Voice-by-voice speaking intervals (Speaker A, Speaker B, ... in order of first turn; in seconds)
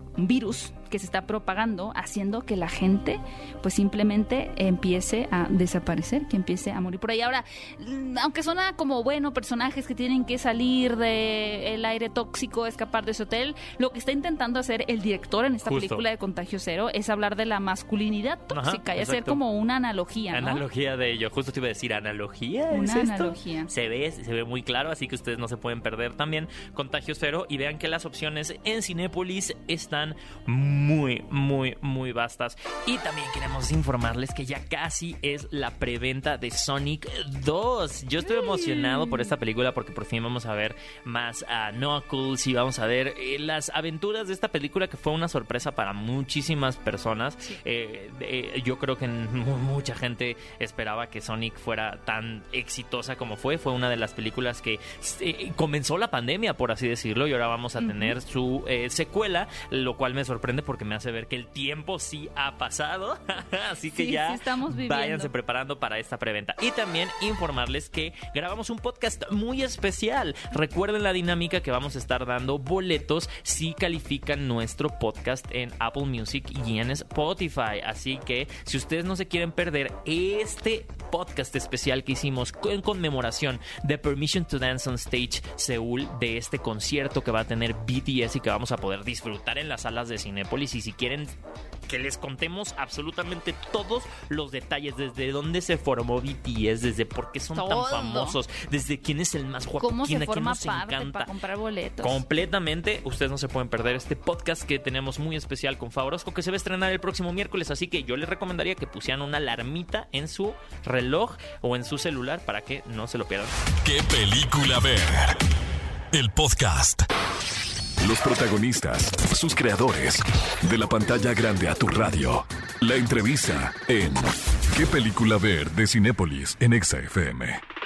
Speaker A: 0.2-20.6, 22.7-23.7, 38.3-39.3, 57.8-58.1, 63.9-65.3, 97.5-98.4, 99.8-102.2
Speaker B: 15.6-16.0, 18.5-19.4, 20.3-91.3, 91.9-101.3, 102.0-113.5
Speaker C: 113.8-115.4, 116.1-117.0, 118.0-127.6